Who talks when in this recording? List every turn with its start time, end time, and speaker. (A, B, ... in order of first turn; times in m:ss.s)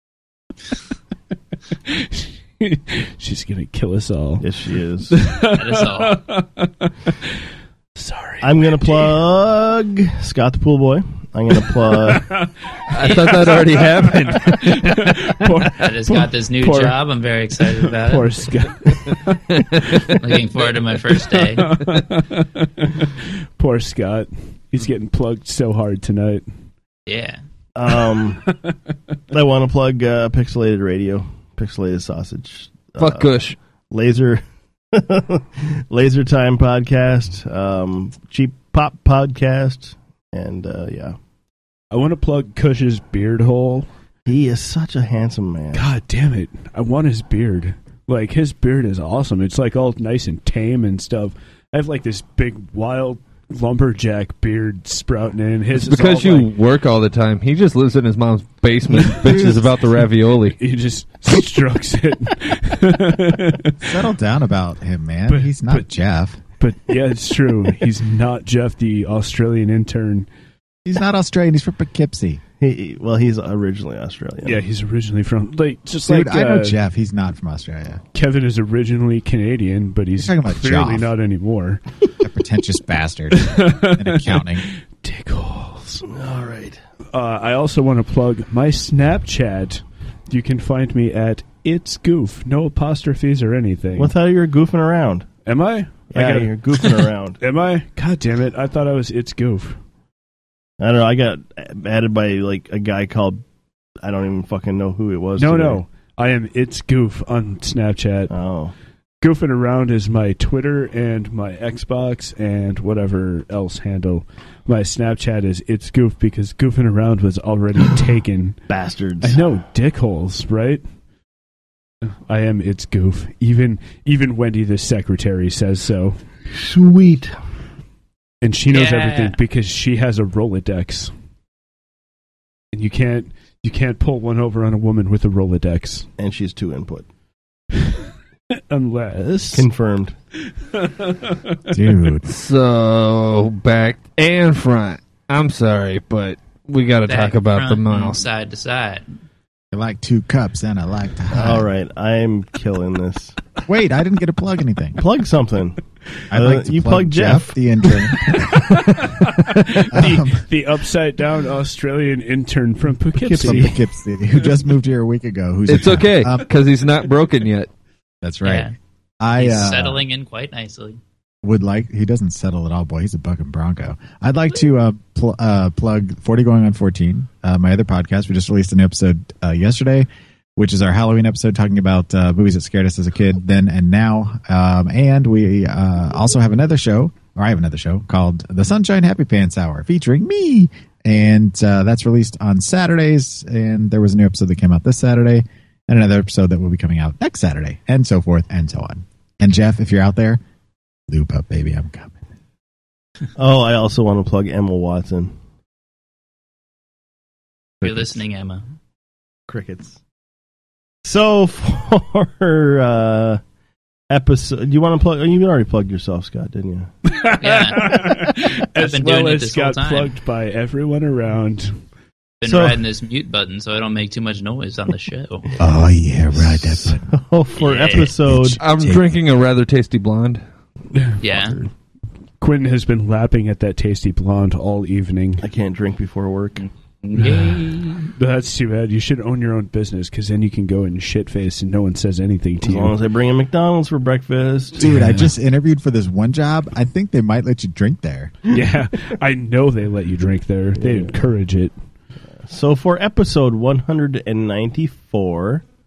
0:01.8-0:04.4 A
0:04.4-0:05.1 B
0:05.1-0:07.3 A
0:05.5-0:06.2 C
0:08.0-0:09.2 A
0:08.4-0:12.3 B
0:12.1-0:17.0 A
0:12.9-0:15.3 D
0:13.0-0:13.8 C
0:15.8-0:18.5 C
0:17.8-0:20.1 A
0:19.5-0:20.0 D
0:20.2-0:21.7 C
0:21.3-0:26.4 A
0:27.1-0:27.4 C
0:27.7-0:28.4 B
0:28.4-0:28.7 A
0:29.3-0:33.4 B
0:33.0-0:33.6 D
0:33.9-0:34.4 B
0:34.9-0:41.2 B
0:41.9-0:43.9 A
0:44.2-0:45.8 B
0:45.7-0:56.5 A
0:55.7-1:00.6 D
0:58.9-0:59.8 E
0:59.0-0:59.4 A
1:00.6-1:03.8 A
1:03.8-1:06.4 E
1:05.3-1:05.9 A
1:06.6-1:10.3 A
1:10.8-1:12.4 E
1:12.6-1:14.6 B
1:14.4-1:16.8 A
1:16.0-1:18.0 E
1:18.1-1:21.8 A
1:20.2-1:21.1 E
1:22.2-1:24.6 E
1:23.4-1:26.0 A
1:26.1-1:26.8 B
1:27.1-1:34.1 A
1:34.0-1:35.3 B
1:35.4-1:36.9 A
1:36.1-1:37.4 B
1:37.4-1:39.8 A
1:40.8-1:43.4 B
1:44.0-1:45.8 B
1:45.4-1:48.3 A
1:48.3-1:48.7 B
1:49.2-1:58.6 A
1:58.7-1:59.4 B
1:59.2-2:00.8 A
2:02.0-2:06.2 A
2:06.5-2:07.4 B
2:08.4-2:11.1 A
2:08.7-2:09.3 C
2:12.7-2:16.1 A
2:16.2-2:17.1 B
2:18.7-2:19.7 A
2:19.5-2:20.1 B
2:20.8-2:21.4 A
2:21.7-2:22.2 E
2:22.2-2:28.2 D
2:27.0-2:29.0 C
2:29.7-2:31.7 E
2:31.3-2:33.4 B
2:33.6-2:35.0 E
2:35.0-2:35.8 B
2:36.3-2:40.4 E
2:36.3-2:37.6 B
2:38.8-2:43.8 A
2:43.2-2:43.8 B
2:43.4-2:46.5 E
2:45.7-2:47.7 D
2:48.2-2:48.7 E
2:48.4-2:48.7 C
2:49.2-2:50.0 E
2:49.4-2:51.0 C
2:51.4-3:20.4 E
3:21.1-3:22.2 E
3:23.4-3:25.3 B
3:27.8-3:28.6 C
3:29.5-3:30.0 B
3:31.0-3:33.4 B
3:34.1-3:36.9 B
3:37.0-3:41.8 A
3:37.4-3:38.0 C
3:38.8-3:40.1 C
3:42.4-3:45.4 C
3:42.4-3:42.8 B
3:45.6-3:47.0 E
3:46.3-3:48.6 B
3:47.6-3:48.1 C
3:48.3-3:49.2 E
3:48.6-3:50.4 D
3:50.9-3:51.7 A
3:51.2-3:51.6 C
3:52.4-3:55.4 A
3:55.4-3:56.6 B
3:57.1-3:57.9 C
3:57.2-4:02.9 A
4:02.6-4:04.9 B
4:04.8-4:08.3 E
4:04.8-4:05.3 A
4:08.5-4:11.7 A
4:10.8-4:11.1 B
4:12.4-4:15.6 B